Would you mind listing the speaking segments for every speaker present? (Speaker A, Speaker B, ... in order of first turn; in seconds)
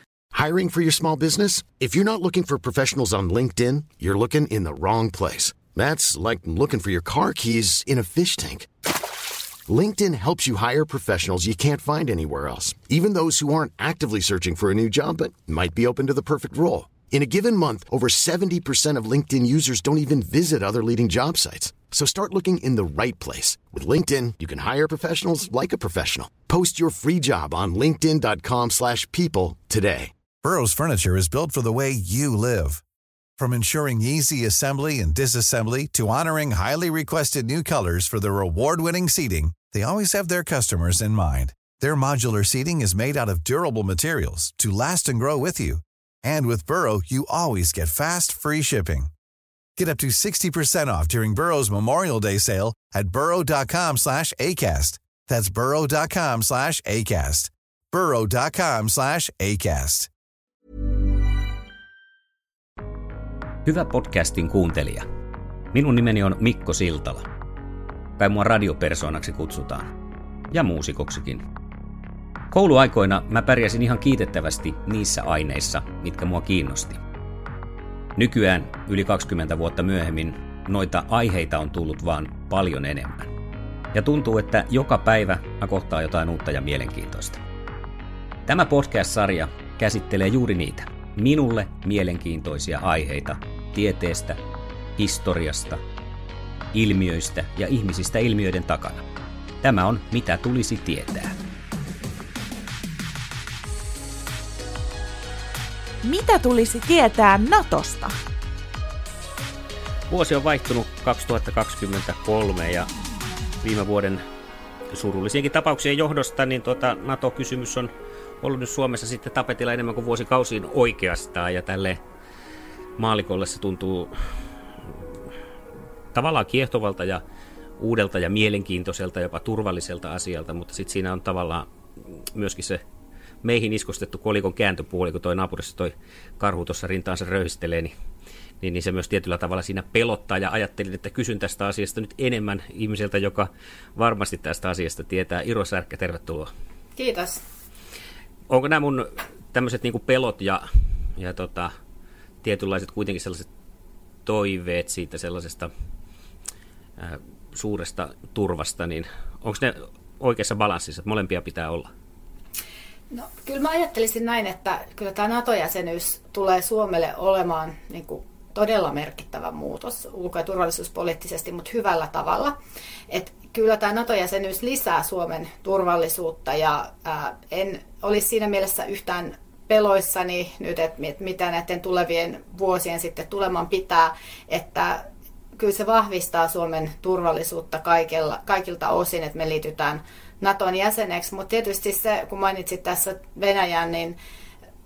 Speaker A: 0.3-8.7, 9.7-30.1
Speaker B: 30.4-32.8, 33.4-49.1, 49.8-60.1
Speaker C: 63.6-65.0, 65.7-67.2, 68.2-69.9, 70.5-71.4, 72.5-77.0, 78.2-83.3, 83.9-87.4, 88.5-94.4, 95.0-95.8, 96.7-99.0, 99.6-101.3, 110.1-112.9, 113.6-114.2, 114.9-122.0, 123.0-124.1, 126.1-127.2, 127.8-131.7, 132.3-132.8, 133.4-137.9, 138.6-146.5, 148.5-151.7, 152.4-153.4, 154.2-155.7, 157.0-161.9
Speaker D: 106.0-108.2
Speaker E: 146.9-147.4, 163.1-172.5, 173.1-185.0, 185.6-194.2